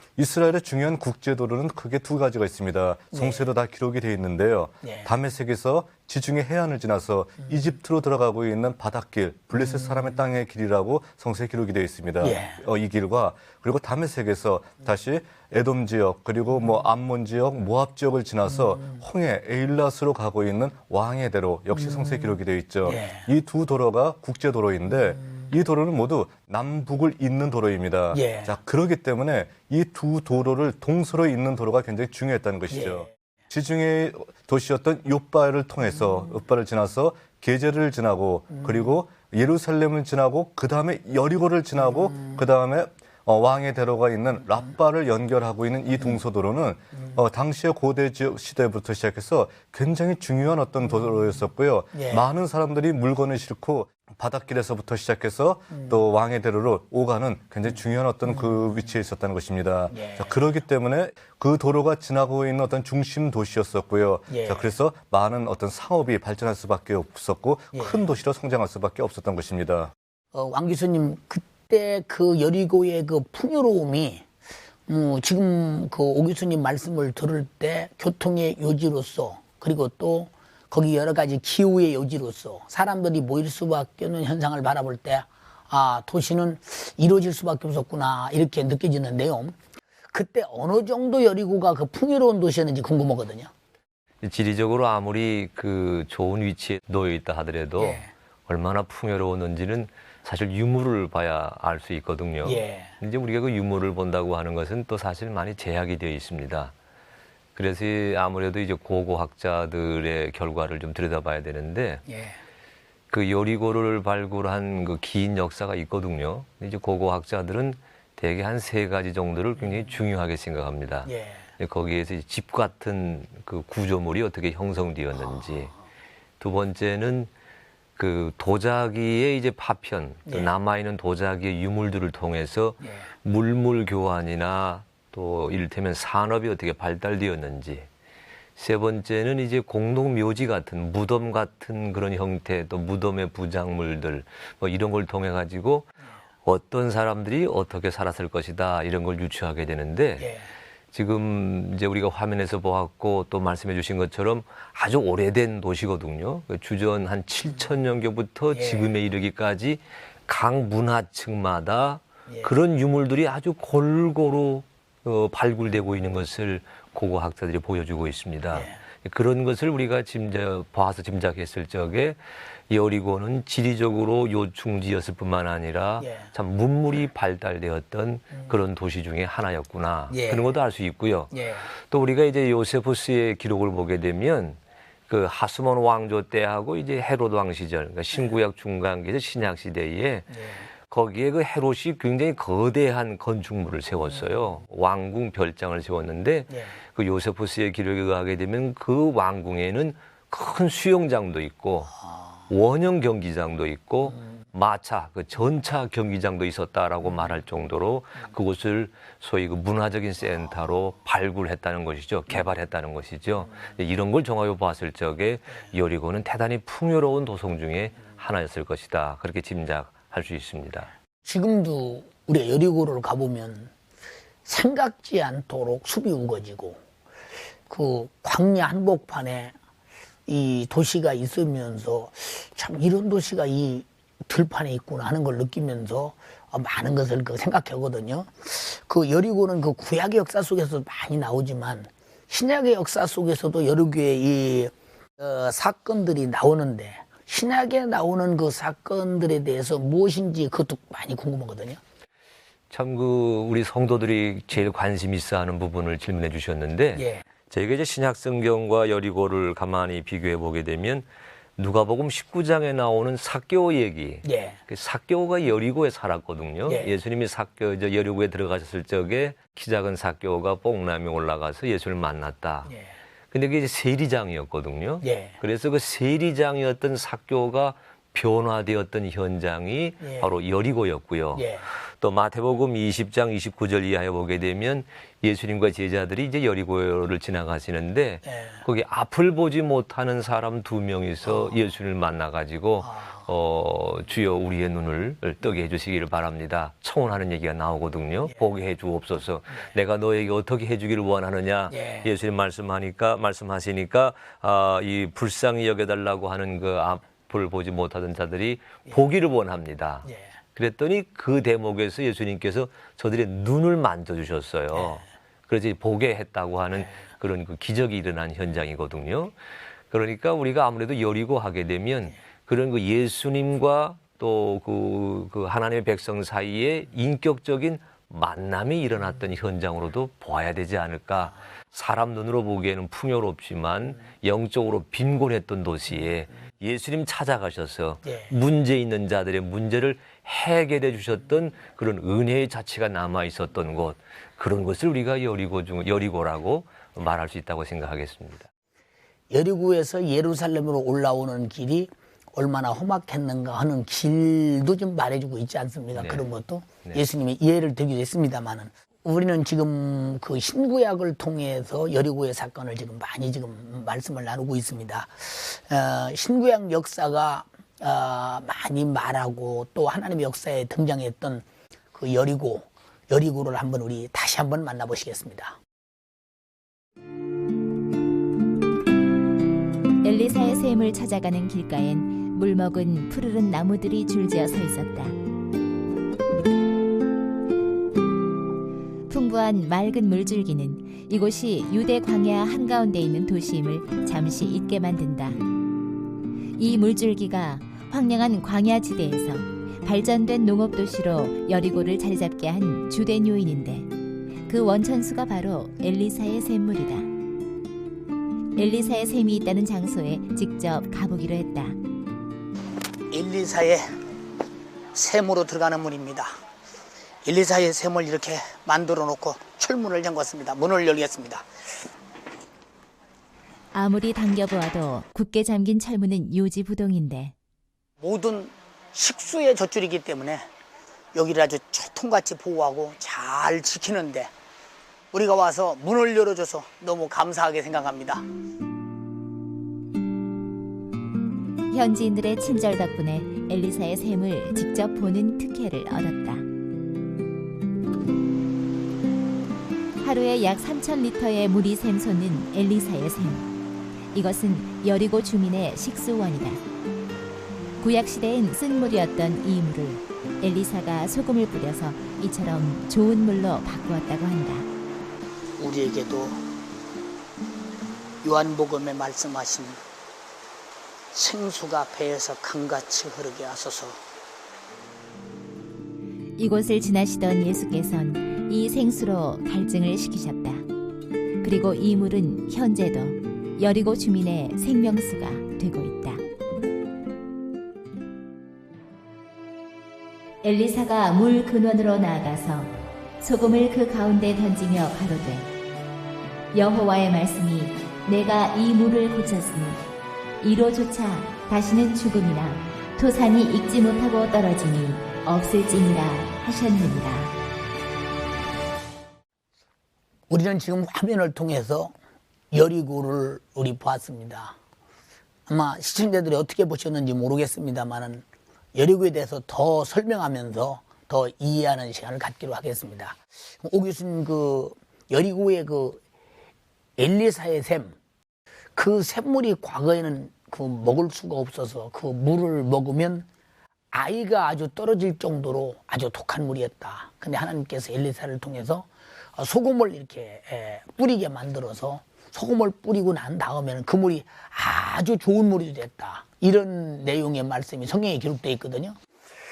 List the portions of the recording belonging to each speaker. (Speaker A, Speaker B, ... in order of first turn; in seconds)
Speaker A: 0.2-69.9
Speaker B: 3.1-3.5, 4.8-5.1, 9.7-10.0, 12.2-12.6, 21.8-23.3, 28.1-28.6, 32.7-33.1, 51.9-52.2, 59.9-60.4, 64.3-64.7, 67.7-68.0, 70.3-74.2, 74.9-89.6, 90.1-93.5, 97.8-98.1, 102.4-102.9, 112.1-112.4, 121.1-121.5, 130.3-130.5, 132.8-133.1, 150.2-150.5, 158.5-158.9, 176.0-176.3, 180.1-180.4, 181.3-181.7, 190.3-190.7, 196.5-196.8, 221.2-223.7, 224.5-226.8, 227.7-229.6, 230.3-251.8, 256.9-257.2, 264.2-264.6, 272.7-272.9, 275.0-275.4, 280.0-280.3, 281.4-281.7, 288.3-288.6, 292.8-293.2, 301.7-302.1, 310.1-310.3, 314.8-315.0, 349.3-371.4, 371.9-375.6, 413.1-413.9, 414.9-416.3, 417.2-421.5, 428.0-430.5, 431.1-434.3, 435.1-438.2, 465.6-466.4, 468.2-469.8, 471.1-474.0, 510.3-511.9, 512.5-514.5, 515.5-526.0, 527.0-528.0, 528.8-533.3, 533.9-549.0
Speaker C: 94.2-106.7, 107.6-112.0, 113.1-125.7, 126.4-127.3, 128.0-137.9, 138.6-150.3, 150.9-172.2, 172.7-181.3, 181.9-201.9, 202.5-220.9, 252.7-261.1, 261.6-272.7, 273.3-319.3, 319.9-348.5, 355.9-356.2
Speaker D: 380.0-385.2, 389.1-395.4, 396.6-403.9, 404.5-407.1, 408.6-411.8, 423.7-427.4, 441.7-446.5, 450.0-453.5, 454.1-456.6, 457.8-464.7, 476.4-480.6, 481.4-486.2, 490.4-495.5, 496.5-499.8, 500.4-507.3